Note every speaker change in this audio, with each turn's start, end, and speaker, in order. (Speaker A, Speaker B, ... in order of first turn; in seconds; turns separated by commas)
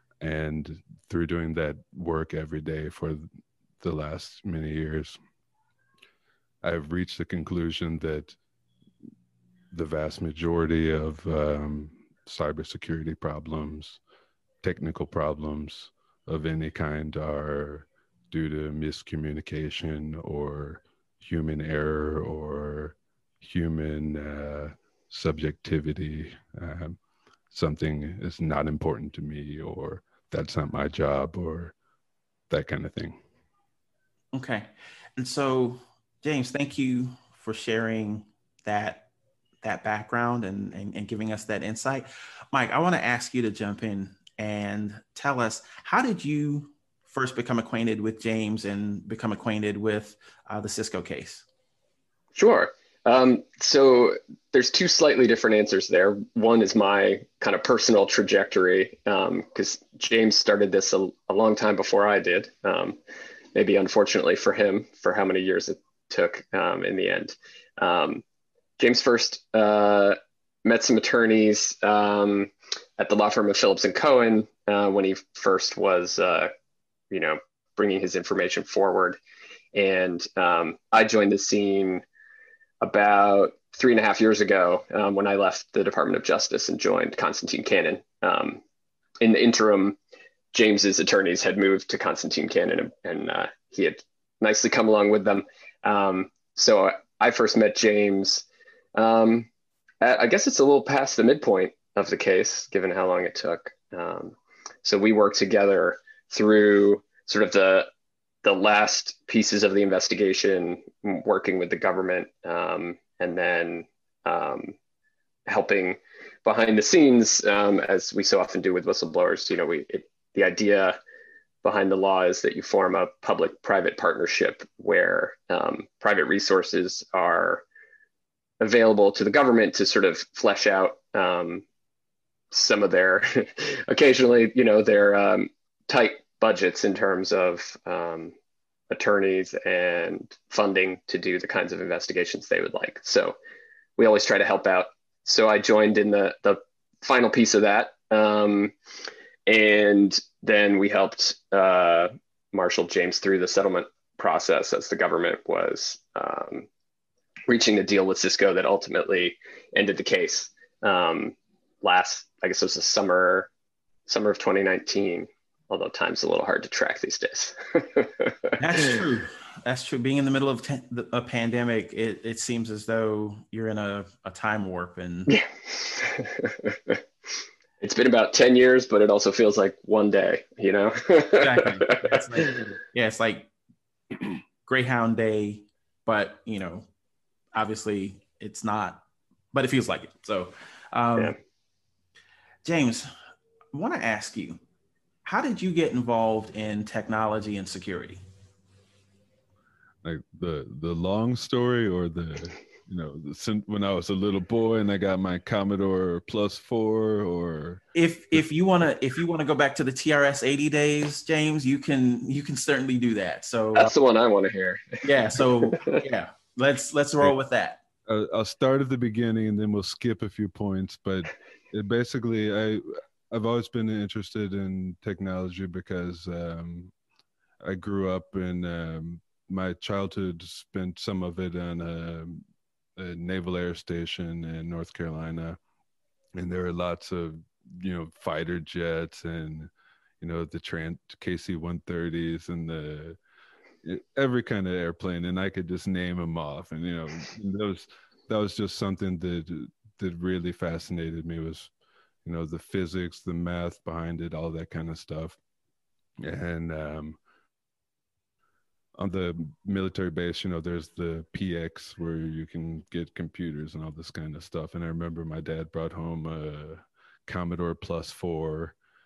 Speaker A: 0.2-3.2, Speaker A: 3.8-5.2, Speaker A: 6.6-8.4, Speaker A: 9.7-14.0, Speaker A: 14.6-27.0, Speaker A: 27.5-31.7, Speaker A: 32.5-33.2, Speaker B: 34.3-39.1, Speaker B: 39.6-51.4, Speaker C: 52.3-63.0, Speaker C: 63.5-68.2, Speaker C: 68.8-76.5, Speaker C: 77.1-79.2, Speaker C: 79.7-82.0, Speaker C: 82.8-88.6, Speaker C: 89.2-90.0, Speaker C: 90.5-99.5, Speaker C: 100.0-107.9, Speaker C: 108.4-114.7, Speaker C: 115.5-121.0, Speaker C: 121.6-127.6, Speaker C: 128.6-131.6, Speaker C: 132.5-138.3, Speaker C: 138.9-143.3, Speaker C: 144.0-148.7, Speaker C: 149.5-156.7, Speaker C: 157.5-163.5, Speaker C: 164.1-169.0, Speaker B: 168.6-175.3, Speaker C: 175.3-177.0, Speaker C: 177.8-182.2, Speaker B: 181.3-183.5, Speaker B: 184.7-186.9, Speaker B: 187.5-191.3, Speaker B: 192.6-193.1, Speaker B: 193.7-194.6, Speaker B: 195.2-198.2, Speaker A: 200.0-207.8, Speaker B: 207.9-213.9, Speaker C: 213.7-216.0, Speaker B: 215.0-217.8, Speaker A: 218.1-226.9, Speaker A: 227.6-232.4, Speaker A: 232.9-235.6, Speaker A: 236.3-243.2, Speaker A: 243.8-251.7, Speaker A: 252.2-255.4, Speaker A: 256.2-257.2, Speaker A: 259.0-268.7